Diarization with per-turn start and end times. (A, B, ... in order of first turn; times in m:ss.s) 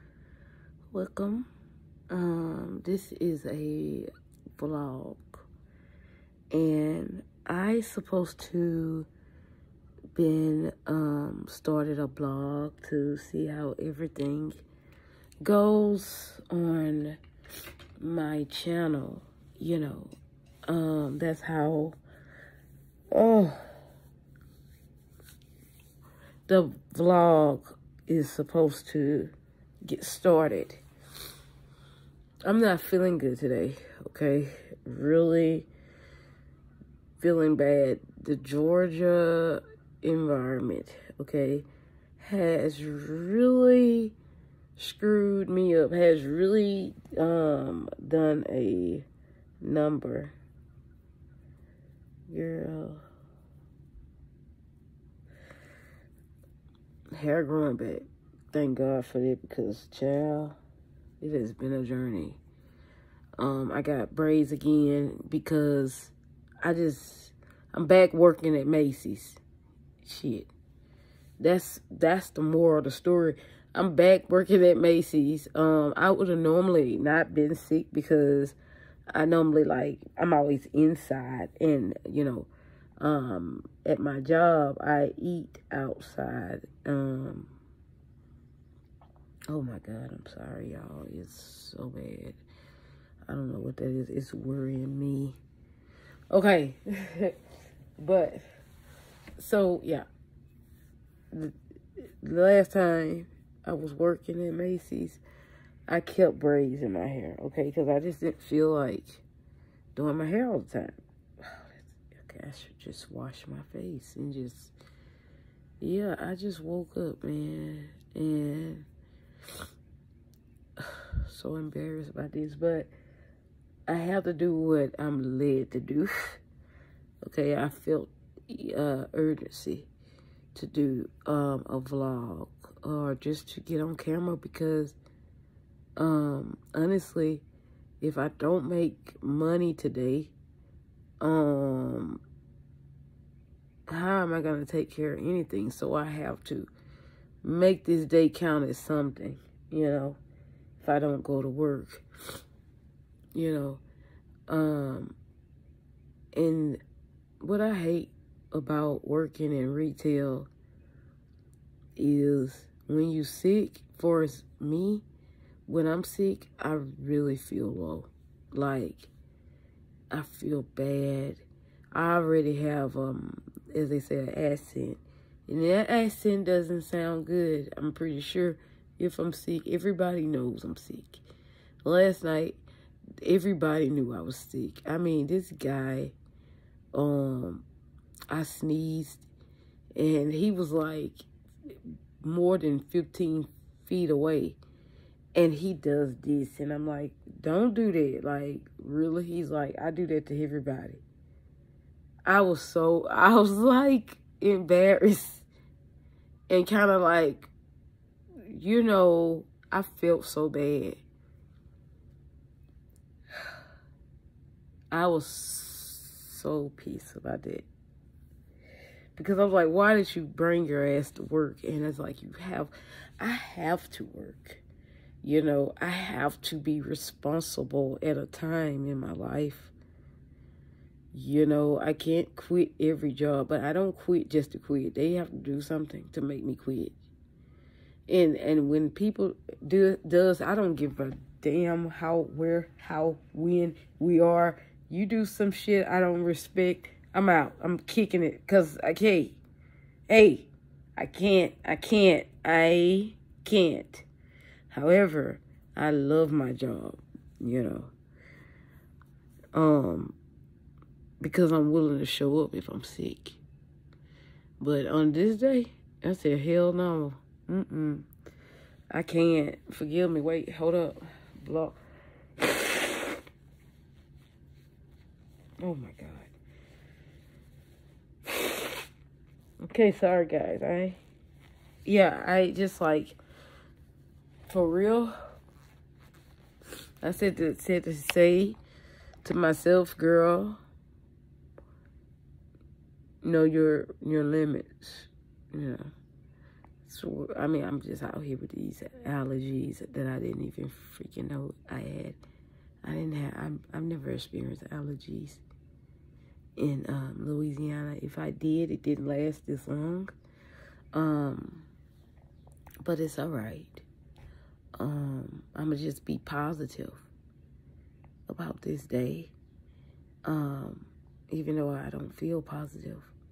0:00.9-0:01.5 A
0:02.1-0:04.1 A
0:04.6-0:05.4 A
0:06.5-0:09.1 A
0:10.2-0:14.6 A
0:15.4-0:17.2 A
0:18.0-0:20.1 A
0:20.7-0:22.0 A
0:23.1-0:23.6 A
0:26.5-0:29.3 A
0:29.8-0:30.8 A
0:32.4-0:35.7 A
0:37.2-0:41.6 A
0:42.2-0:44.1 A
0:44.8-0:49.0 A
0:49.6-0:50.3 A
0:52.3-0:53.0 A
0:57.1-1:00.6 A
1:01.2-1:02.4 A
1:03.4-1:09.4 A
1:10.0-1:10.5 A
1:11.4-1:18.6 A
1:19.1-1:27.5 A
1:29.5-1:32.4 A
1:33.3-1:35.4 A
1:36.3-1:37.3 A
1:38.0-1:38.4 A
1:39.4-1:40.0 A
1:41.3-1:45.2 A
1:45.9-1:49.2 A
1:49.9-1:54.7 A
1:55.8-1:58.8 A
2:00.8-2:02.9 A
2:03.9-2:06.4 A
2:07.2-2:09.9 A
2:10.5-2:15.0 A
2:16.0-2:17.4 A
2:18.0-2:20.3 A
2:21.2-2:22.2 A
2:23.9-2:26.7 A
2:27.4-2:30.2 A
2:30.8-2:32.0 A
2:33.3-2:33.8 A
2:34.5-2:35.1 A
2:36.3-2:36.8 A
2:37.4-2:40.5 A
2:42.0-2:45.0 A
2:45.7-2:49.1 A
2:50.1-3:01.2 A
3:01.8-3:02.6 A
3:03.2-3:06.1 A
3:06.9-3:07.6 A
3:08.3-3:09.2 A
3:10.0-3:11.2 A
3:12.2-3:14.6 A
3:15.3-3:21.0 A
3:22.2-3:25.4 A
3:26.5-3:27.5 A
3:28.5-3:31.0 A
3:34.9-3:37.6 A
3:39.2-3:44.6 A
3:45.2-3:49.7 A
3:51.1-3:56.9 A
3:58.1-4:09.4 A
4:10.1-4:14.0 A
4:14.7-4:17.9 A
4:19.5-4:20.1 A
4:21.2-4:23.4 A
4:24.6-4:28.1 A
4:28.9-4:31.8 A
4:32.4-4:32.9 A
4:35.6-4:36.3 A
4:38.3-4:38.6 A
4:39.6-4:41.0 A
4:41.8-4:43.2 A
4:44.5-4:45.1 A
4:47.0-4:48.6 A
4:49.2-4:50.6 A
4:53.2-4:55.9 A
4:56.8-5:02.2 A
5:02.8-5:05.4 A
5:06.6-5:10.1 A
5:10.9-5:11.7 A
5:12.8-5:13.8 A
5:14.8-5:17.0 A
5:18.3-5:19.3 A
5:20.2-5:23.1 A